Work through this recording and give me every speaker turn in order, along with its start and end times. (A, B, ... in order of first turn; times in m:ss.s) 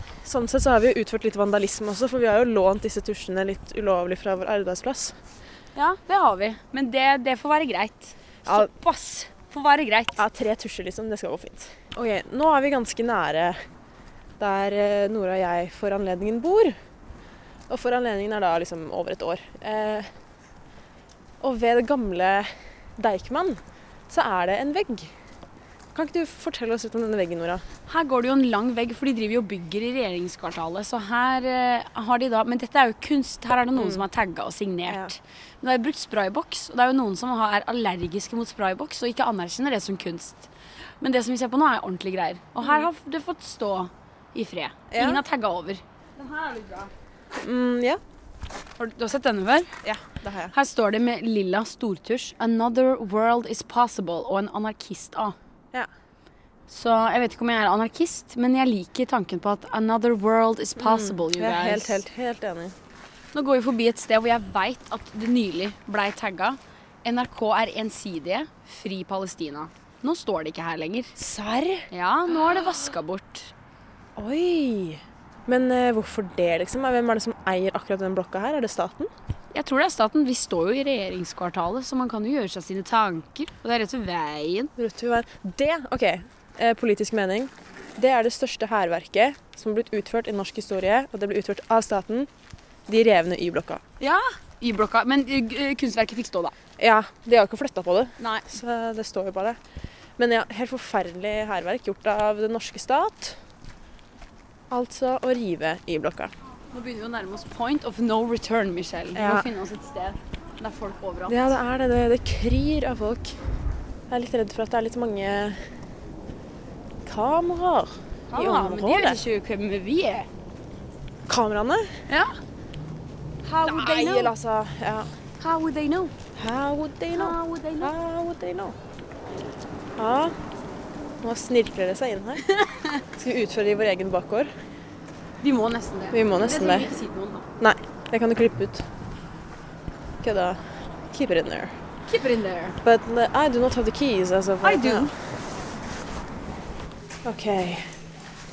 0:00.2-0:05.1 A
0:05.8-0:10.2 B
0:10.2-0:13.6 A
0:14.4-0:16.7 A
0:17.7-0:20.1 A
0:21.4-0:22.5 A
0:23.0-0:25.1 A
0:26.0-0:27.6 A
0:27.9-0:40.5 B
0:33.8-0:34.0 A
0:41.0-0:46.9 B
0:44.9-0:45.2 A
0:47.4-0:48.0 A
0:48.8-0:49.7 B
0:49.8-0:50.5 A
0:50.5-0:55.4 B
0:56.7-1:02.0 B
1:00.8-1:02.7 A
1:03.3-1:11.1 B
1:11.2-1:11.9 A
1:11.9-1:13.5 B
1:14.2-1:19.1 A
1:19.5-1:24.7 B
1:24.8-1:32.3 A
1:32.9-1:33.8 A
1:34.0-1:36.5 B
1:36.8-1:39.6 A
1:38.2-1:38.5 B
1:40.2-1:43.3 A
1:44.7-1:46.3 A
1:46.7-1:51.4 B
1:49.2-1:49.4 A
1:51.3-1:53.3 A
1:54.1-1:55.6 A
1:57.1-1:59.2 A
1:58.3-2:00.3 B
2:01.3-2:01.8 A
2:02.1-2:02.4 B
2:03.4-2:04.3 B
2:03.6-2:05.1 A
2:05.4-2:06.2 B
2:06.4-2:08.8 A
2:07.1-2:07.9 B
2:10.0-2:10.3 A
2:11.2-2:12.4 A
2:13.2-2:14.5 A
2:15.4-2:17.5 B
2:16.1-2:16.9 A
2:17.6-2:18.8 A
2:20.2-2:20.6 A
2:21.1-2:21.7 A
2:22.1-2:22.8 B
2:22.8-2:25.1 A
2:24.6-2:25.1 B
2:27.3-2:27.8 A